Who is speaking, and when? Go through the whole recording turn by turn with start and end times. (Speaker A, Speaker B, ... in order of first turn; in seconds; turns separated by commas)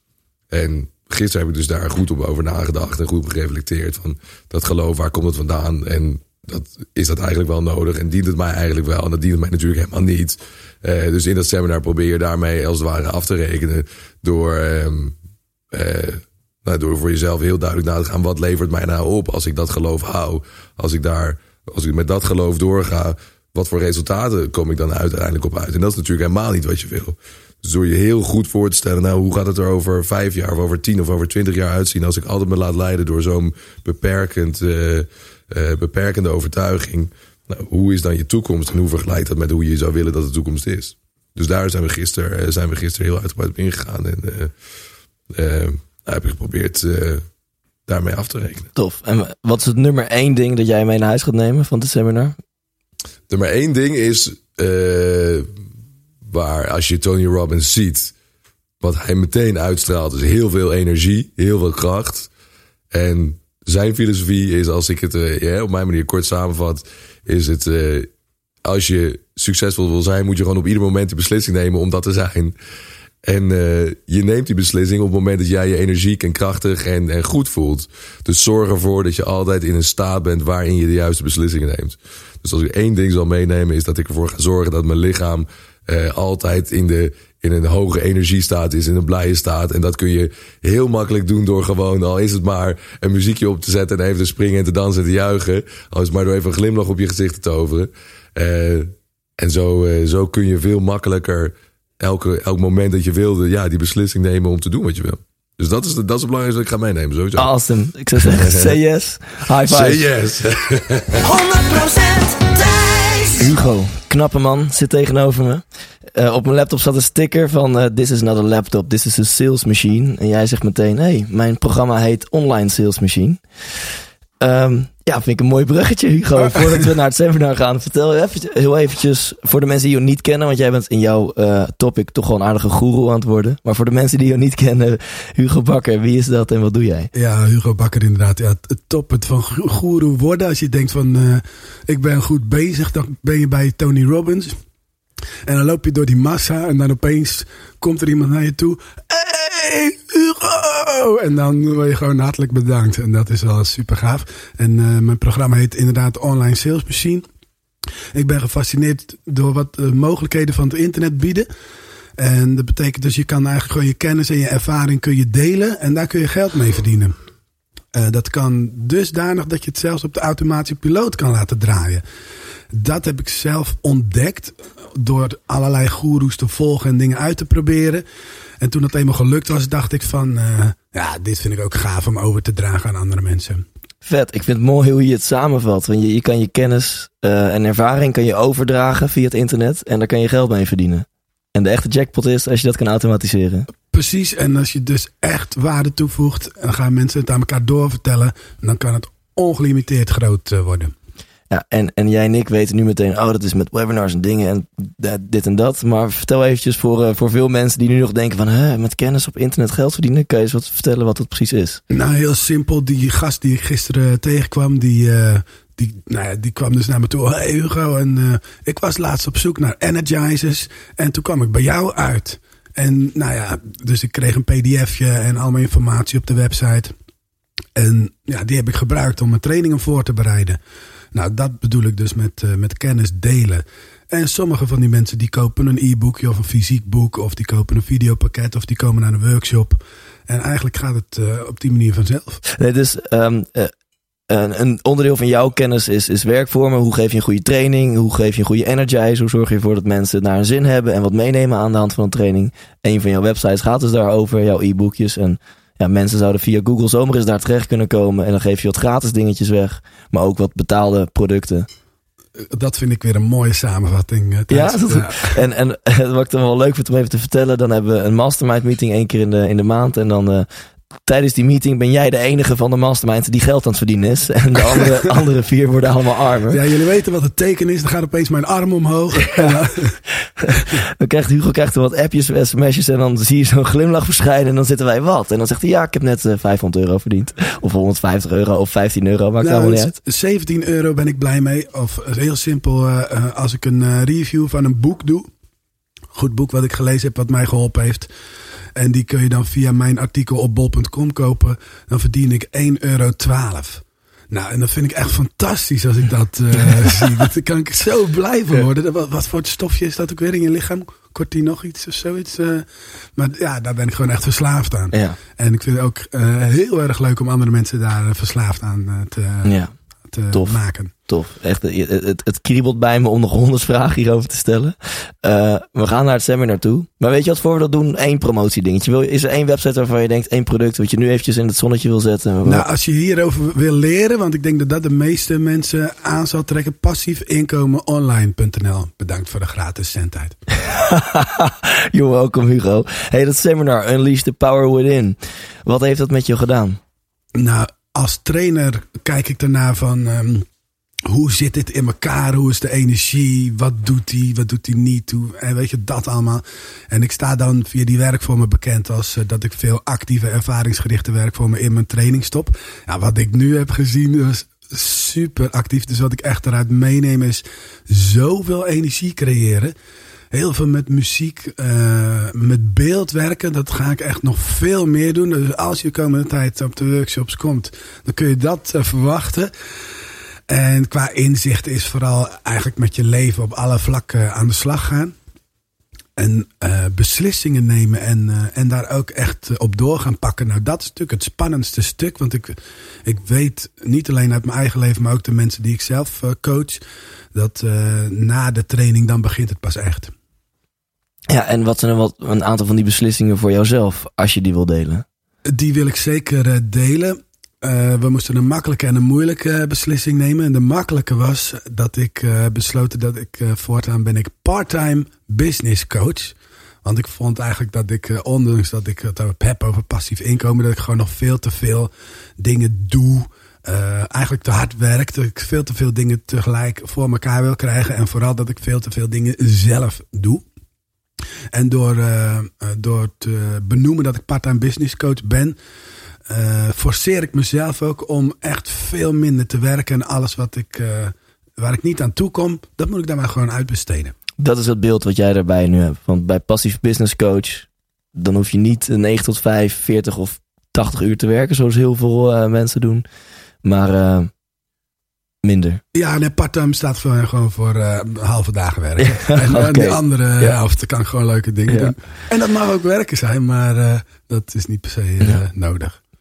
Speaker A: 0.5-15.1, Speaker A: 15.7-44.5, Speaker A: 45.3-47.2, Speaker A: 47.9-48.7, Speaker B: 48.7-52.4, Speaker A: 53.3-55.5, Speaker A: 56.2-58.1, Speaker A: 58.8-62.3, Speaker A: 62.9-68.1, Speaker A: 68.6-72.5, Speaker A: 73.2-107.5, Speaker B: 107.4-110.0, Speaker A: 108.2-108.7, Speaker A: 109.6-111.2, Speaker C: 111.2-113.5, Speaker B: 113.4-115.6, Speaker B: 116.1-123.4, Speaker B: 124.4-137.1, Speaker D: 137.1-144.6, Speaker D: 145.4-157.2, Speaker D: 158.1-161.5, Speaker D: 162.2-167.2, Speaker D: 167.9-172.0, Speaker D: 172.7-178.0, Speaker D: 178.6-183.6, Speaker B: 184.0-193.7, Speaker D: 193.9-200.9, Speaker B: 201.5-211.8, Speaker D: 211.9-226.9, Speaker D: 227.8-230.6, Speaker D: 231.1-242.4, Speaker B: 242.6-243.7, Speaker B: 244.3-261.7, Speaker D: 262.4-265.4, Speaker B: 264.5-270.5, Speaker B: 271.1-276.6, Speaker D: 276.5-280.0, Speaker B: 280.6-289.9, Speaker D: 289.4-295.3, Speaker D: 296.1-298.1, Speaker D: 298.8-319.5, Speaker B: 314.9-315.2, Speaker B: 319.4-319.7, Speaker D: 320.1-320.9, Speaker B: 320.3-332.6, Speaker D: 332.4-340.4, Speaker B: 340.6-346.8, Speaker D: 347.4-350.4, Speaker D: 351.1-369.7, Speaker D: 370.3-379.5, Speaker D: 380.5-385.1, Speaker D: 386.2-396.8, Speaker D: 397.3-400.1, Speaker B: 401.3-405.0, Speaker D: 405.5-430.4, Speaker D: 431.5-435.6, Speaker D: 436.3-444.1, Speaker B: 444.4-453.0, Speaker B: 453.6-454.3, Speaker B: 455.4-455.8, Speaker D: 455.9-466.0, Speaker B: 459.0-460.6, Speaker B: 461.7-461.9